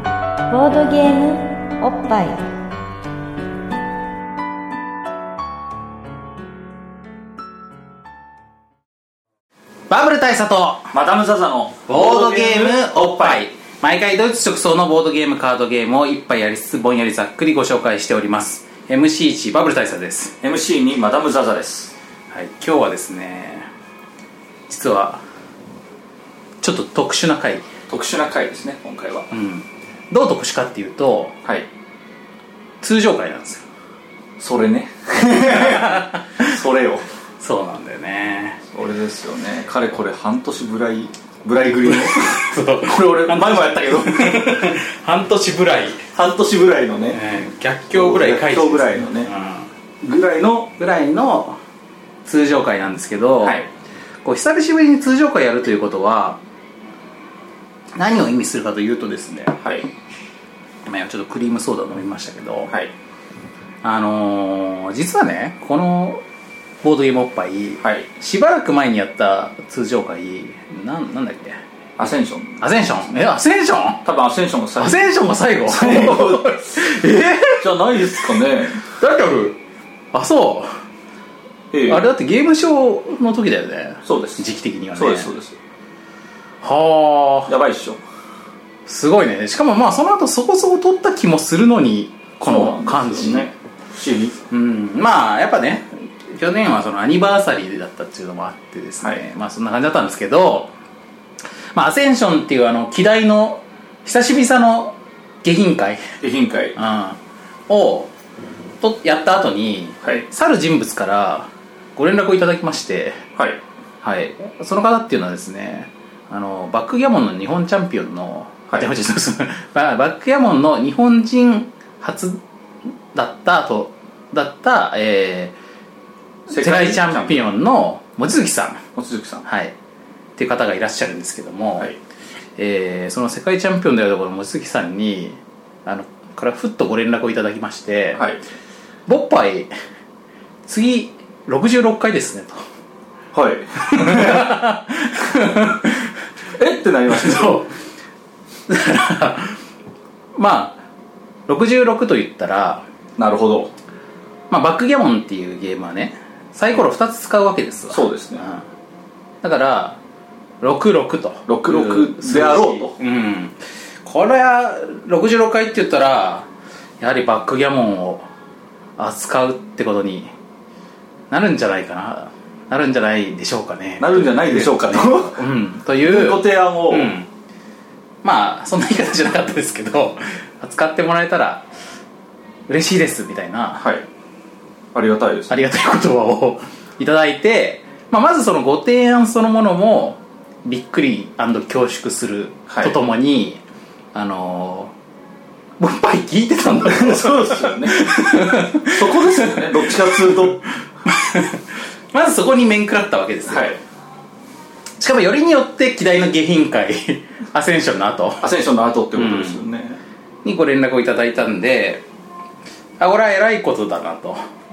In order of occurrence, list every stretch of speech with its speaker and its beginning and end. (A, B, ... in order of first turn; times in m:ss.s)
0:00.5-0:02.4 A
0:09.9-0:10.9 B
0:10.9-0:13.4 C
0:11.9-0:20.4 B
0:20.4-0:21.9 C
0:22.3-0:23.7 B
0:24.7-0:25.2 B
0:26.6-0:27.7 B
0:27.9-0:29.3 C
0:29.3-0:31.3 B
0:32.8-0:33.6 B
0:34.4-0:37.0 C
0:35.5-0:36.5 B
0:37.4-0:38.6 B
0:38.7-0:44.7 C
0:41.8-0:46.0 B
0:46.1-0:47.2 C
0:47.1-0:49.7 B
0:47.9-0:49.3 C
0:50.0-0:50.7 C
0:50.8-0:51.6 B
0:52.2-0:53.6 B
0:53.4-0:53.7 C
0:54.2-0:56.4 B
0:58.0-0:59.6 B
0:59.6-0:59.9 C
1:00.8-1:02.7 B
1:03.8-1:06.2 B
1:06.8-1:11.6 B
1:07.8-1:08.1 C
1:12.0-1:12.6 C
1:12.6-1:14.0 B
1:14.0-1:15.0 C
1:14.8-1:18.2 B
1:15.6-1:16.6 C
1:17.5-1:18.8 C
1:18.9-1:19.6 B
1:20.1-1:20.8 B
1:21.7-1:22.1 C
1:21.9-1:25.3 B
1:24.0-1:25.6 C
1:26.6-1:27.5 B
1:27.5-1:28.0 C
1:28.9-1:33.5 B
1:32.4-1:34.3 C
1:34.5-1:40.7 B
1:41.7-1:46.0 B
1:46.2-1:46.8 C
1:46.8-1:48.1 B
1:48.8-1:53.2 B
1:53.4-1:53.6 C
1:54.0-2:02.4 B
2:03.1-2:05.5 B
2:06.5-2:07.4 C
2:06.5-2:08.8 B
2:09.0-2:09.4 C
2:09.4-2:09.7 B
2:10.4-2:11.9 B
2:12.6-2:18.2 B
2:18.1-2:18.4 C
2:19.1-2:19.7 B
2:20.7-2:22.6 B
2:23.3-2:24.6 C
2:23.8-2:26.1 B
2:26.6-2:27.6 C
2:27.1-2:27.7 B
2:28.7-2:29.6 B
2:30.4-2:30.8 B
2:31.5-2:32.8 B
2:33.2-2:33.7 C
2:34.5-2:38.6 B
2:37.9-2:38.4 C
2:39.4-2:40.0 B
2:40.6-2:46.5 B
2:41.5-2:43.0 C
2:47.0-2:48.2 B
2:49.0-2:50.3 B
2:51.3-2:57.3 B
2:54.0-2:57.1 C
2:58.2-3:01.6 B
3:02.7-3:03.8 B
3:03.8-3:04.0 C
3:04.9-3:05.6 C
3:05.5-3:13.6 B
3:12.7-3:12.9 C
3:14.1-3:14.9 B
3:15.8-3:20.4 B
3:16.7-3:20.6 C
3:21.0-3:21.6 B
3:22.1-3:23.8 B
3:23.5-3:23.8 C
3:25.0-3:28.4 B
3:28.4-3:30.0 C
3:29.1-3:29.6 B
3:30.4-3:32.0 B
3:33.0-3:34.4 B